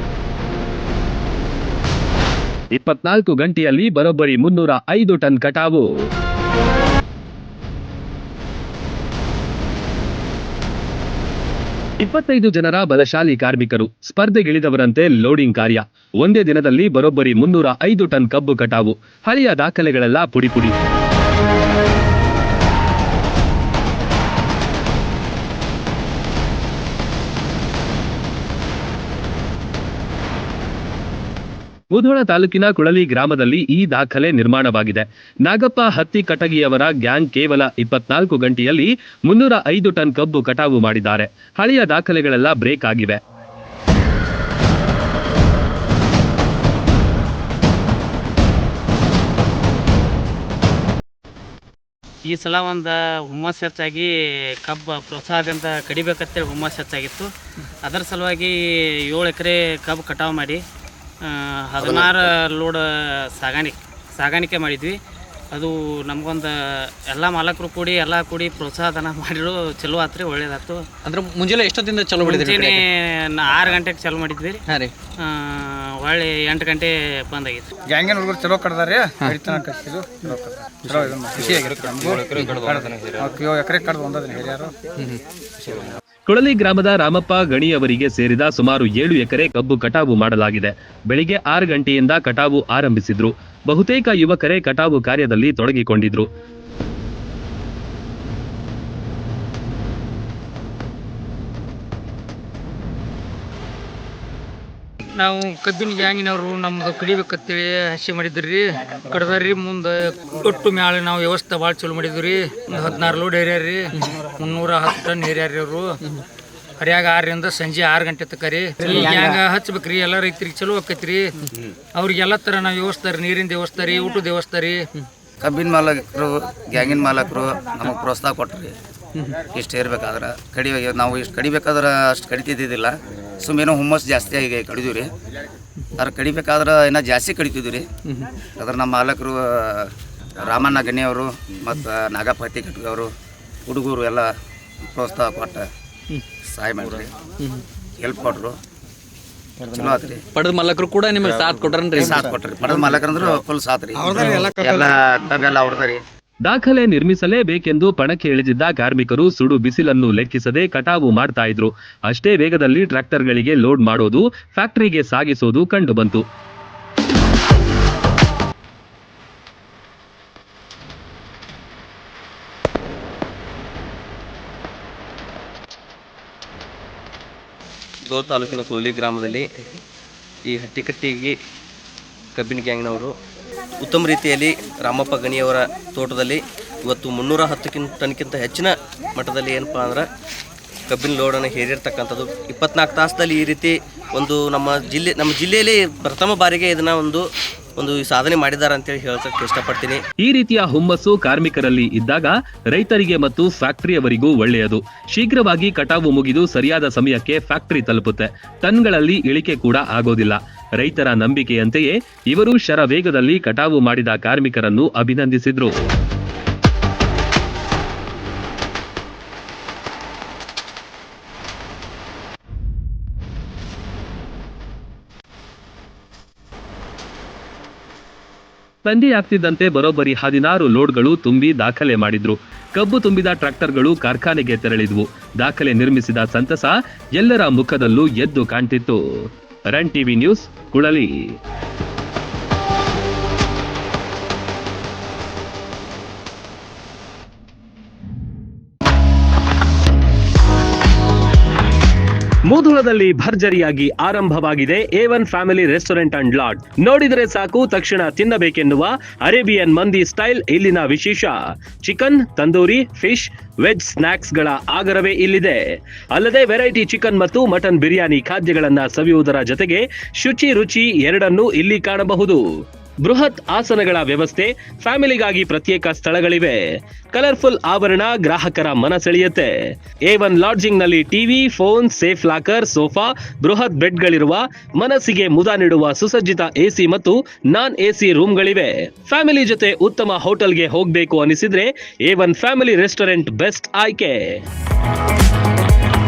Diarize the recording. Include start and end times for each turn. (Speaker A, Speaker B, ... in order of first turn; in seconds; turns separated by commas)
Speaker A: 2.7-5.9, Speaker A: 12.0-20.8, Speaker A: 31.9-43.2, Speaker B: 52.3-54.1, Speaker B: 54.6-57.3, Speaker B: 57.9-58.5, Speaker B: 59.1-60.6, Speaker B: 61.2-62.8, Speaker B: 63.4-65.0, Speaker B: 65.5-66.5, Speaker B: 67.1-70.8, Speaker C: 71.1-72.8, Speaker B: 72.2-74.6, Speaker B: 75.2-77.7, Speaker D: 77.9-84.7, Speaker A: 86.3-96.3, Speaker E: 105.2-116.0, Speaker E: 116.8-121.3, Speaker E: 122.0-124.9, Speaker F: 125.4-128.8, Speaker F: 129.5-135.1, Speaker F: 136.0-137.9, Speaker F: 138.6-143.1, Speaker F: 143.7-144.3, Speaker F: 144.9-145.7, Speaker F: 146.5-147.1, Speaker F: 148.0-148.6, Speaker F: 149.7-150.2, Speaker C: 150.3-152.3, Speaker F: 151.9-156.0, Speaker A: 156.5-166.2, Speaker G: 178.1-179.5, Speaker G: 180.5-181.4, Speaker G: 182.4-183.1, Speaker G: 183.8-190.1, Speaker G: 190.9-200.0, Speaker A: 200.2-215.8, Speaker A: 228.8-239.0, Speaker A: 239.7-241.1, Speaker A: 252.5-272.4, Speaker A: 273.0-279.6, Speaker A: 280.1-294.2